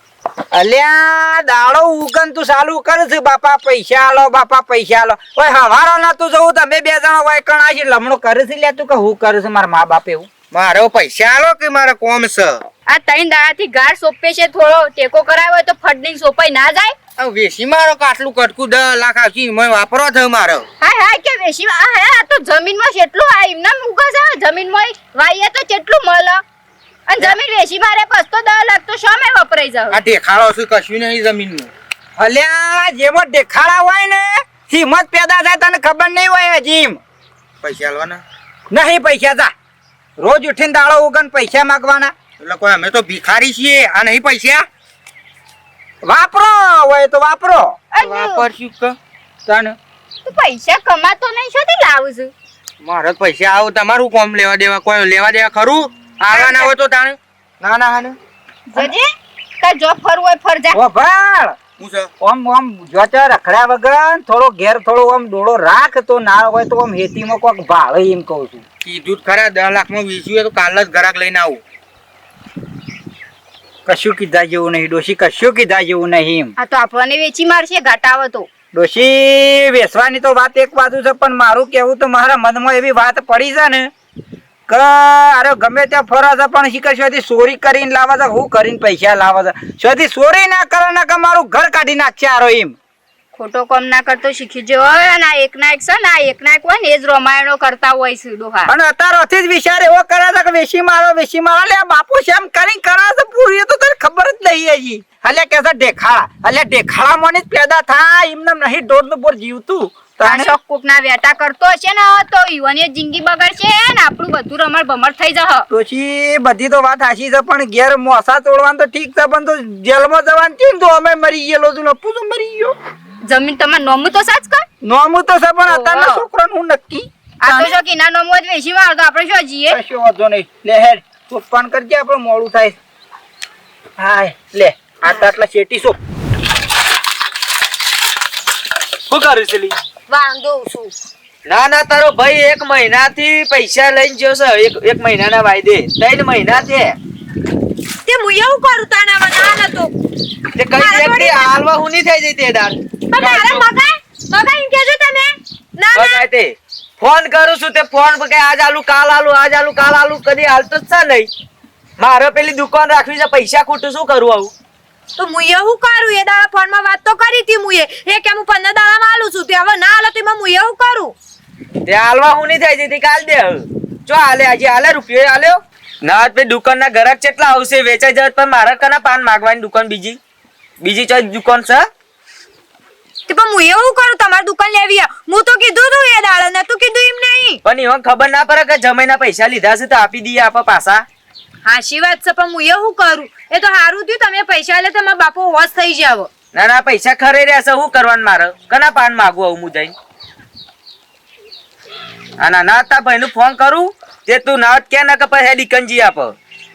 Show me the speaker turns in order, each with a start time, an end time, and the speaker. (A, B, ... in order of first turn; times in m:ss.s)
0:00.5-0:10.3 A
0:10.5-0:12.6 B
0:12.9-0:17.0 C
0:17.2-0:20.6 B
0:20.8-0:26.4 C
0:27.1-0:30.0 C
0:29.9-0:31.7 B
0:32.2-0:37.0 A
0:37.6-0:38.2 B
0:38.7-0:39.5 A
0:40.2-0:42.1 A
0:42.4-0:44.7 B
0:46.0-0:47.8 A
0:47.9-0:48.5 C
0:48.0-0:49.0 B
0:49.5-0:49.8 A
0:50.2-0:52.3 C
0:52.8-0:58.2 B
0:56.3-0:56.7 C
0:58.7-0:59.1 C
0:59.6-1:00.8 C
1:00.7-1:01.6 A
1:01.8-1:02.1 B
1:02.2-1:08.6 A
1:08.8-1:11.6 B
1:13.9-1:16.5 A
1:16.6-1:18.5 C
1:18.7-1:23.9 A
1:24.7-1:32.8 A
1:33.3-1:38.7 C
1:38.7-1:50.6 A
1:50.2-1:55.7 C
1:55.7-2:02.8 A
2:03.2-2:04.7 C
2:04.8-2:07.8 A
2:05.7-2:06.2 C
2:07.4-2:09.8 C
2:09.7-2:12.8 A
2:14.0-2:16.0 A
2:19.1-2:19.8 D
2:20.1-2:20.9 E
2:21.5-2:27.0 D
2:28.0-2:29.9 E
2:30.6-2:33.7 D
2:30.7-2:31.6 E
2:33.1-2:36.2 E
2:35.9-2:41.3 D
2:42.0-2:44.5 D
2:45.2-2:51.2 E
2:51.9-3:00.2 D
3:00.8-3:01.9 D
3:03.3-3:07.6 E
3:07.6-3:11.1 D
3:11.6-3:16.3 E
3:16.5-3:19.9 D
3:22.4-3:26.4 D